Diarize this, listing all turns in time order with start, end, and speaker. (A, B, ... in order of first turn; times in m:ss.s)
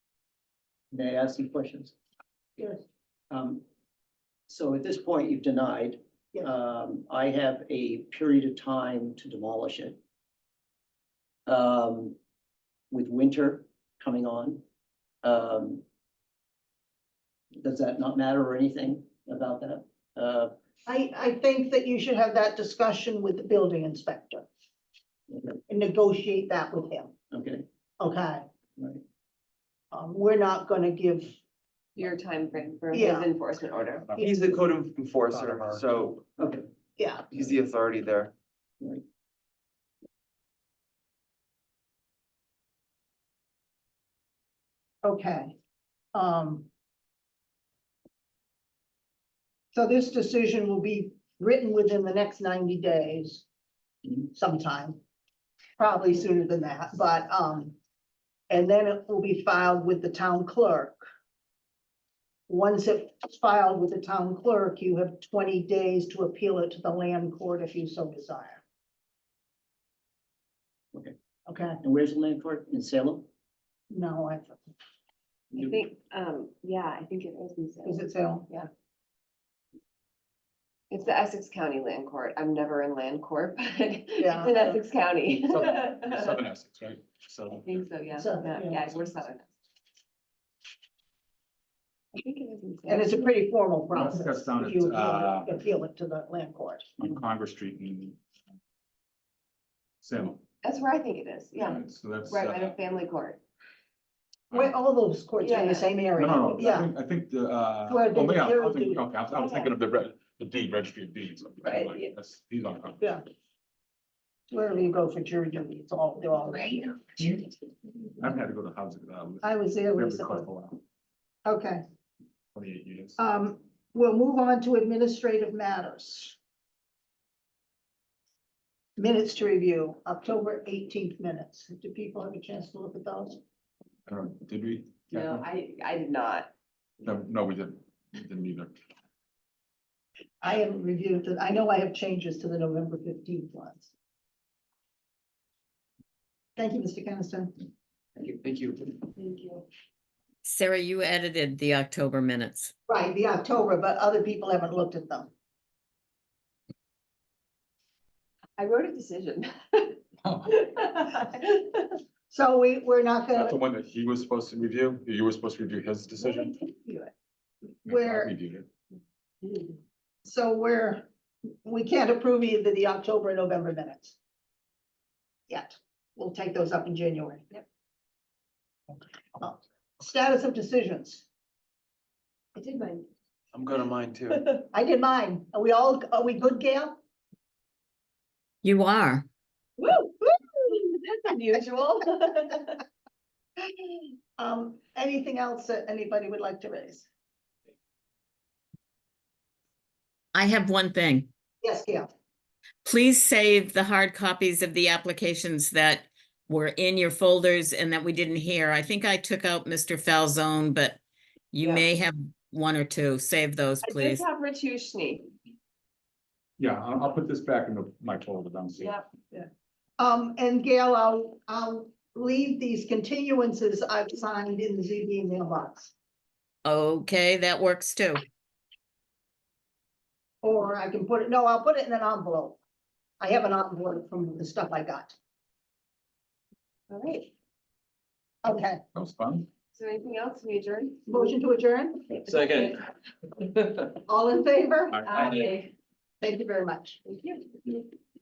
0:00.9-0:01.9 A
0:03.3-0:03.6 A
0:04.5-0:10.0 A
0:11.5-0:12.2 A
0:12.9-0:14.6 A
0:15.2-0:15.8 A
0:17.6-0:20.5 A
0:20.9-0:24.5 B
0:25.7-0:27.1 B
0:27.3-0:27.6 A
0:28.0-0:28.4 B
0:29.9-0:31.4 B
0:32.0-0:34.1 C
0:32.9-0:33.3 B
0:34.2-0:36.2 D
0:35.5-0:35.8 A
0:36.4-0:36.6 A
0:37.0-0:37.2 B
0:37.3-0:38.3 D
0:45.0-0:45.6 B
0:46.1-0:46.7 B
0:49.7-0:53.5 B
0:54.3-0:55.0 B
0:55.8-0:57.8 B
0:58.5-1:01.0 B
1:02.5-1:08.6 B
1:11.5-1:11.8 B
1:11.8-1:13.3 A
1:13.9-1:14.6 B
1:15.5-1:18.7 C
1:17.8-1:18.5 B
1:20.9-1:26.4 C
1:24.2-1:24.8 B
1:25.3-1:27.9 E
1:27.6-1:29.5 C
1:28.2-1:28.8 B
1:32.2-1:33.3 C
1:32.9-1:36.9 B
1:33.9-1:35.6 E
1:37.0-1:38.2 E
1:40.0-1:40.4 E
1:40.6-1:43.4 C
1:41.6-1:42.8 E
1:44.5-1:44.8 E
1:44.5-1:46.9 B
1:45.4-1:45.9 C
1:46.2-1:53.1 E
1:47.9-1:49.1 B
1:49.4-1:49.7 C
1:51.6-1:52.1 C
1:54.5-1:57.0 B
1:58.2-2:00.8 E
1:59.4-2:00.5 B
2:01.4-2:01.8 B
2:02.6-2:03.2 E
2:03.2-2:06.4 B
2:09.0-2:13.4 B
2:14.1-2:15.5 E
2:15.1-2:16.5 C
2:17.0-2:18.8 E
2:20.4-2:23.9 B
2:26.6-2:27.5 B
2:28.2-2:28.8 D
2:29.2-2:29.7 C
2:30.4-2:32.7 F
2:32.9-2:35.3 B
2:38.6-2:42.0 C
2:40.2-2:40.6 E
2:42.3-2:43.5 B
2:43.4-2:46.6 E
2:46.2-2:47.1 C
2:47.9-2:48.3 B
2:47.9-2:48.7 E
2:49.4-2:49.7 C
2:50.2-2:51.1 B
2:51.6-2:54.2 B
2:55.5-2:57.4 B
2:59.4-3:01.3 B
3:02.6-3:03.1 C
3:03.5-3:04.4 D
3:04.3-3:04.6 C
3:04.7-3:07.0 B
3:08.6-3:09.3 F
3:09.8-3:12.8 C
3:14.4-3:17.1 B
3:20.4-3:21.3 F
3:21.6-3:22.1 B
3:22.8-3:31.0 F
3:31.5-3:34.2 F
3:33.8-3:35.3 C
3:36.6-3:39.0 E
3:38.8-3:39.0 C
3:39.3-3:45.9 B
3:46.6-3:48.2 F
3:50.4-3:52.6 B
3:53.2-3:55.2 B
3:56.9-3:57.3 C
3:58.4-3:58.8 B
3:59.0-3:59.5 E
3:59.7-4:01.3 C
4:01.1-4:02.0 B
4:02.1-4:02.9 C
4:04.1-4:05.4 B
4:04.9-4:05.5 E
4:05.0-4:05.7 C
4:06.2-4:07.0 B
4:07.0-4:07.9 C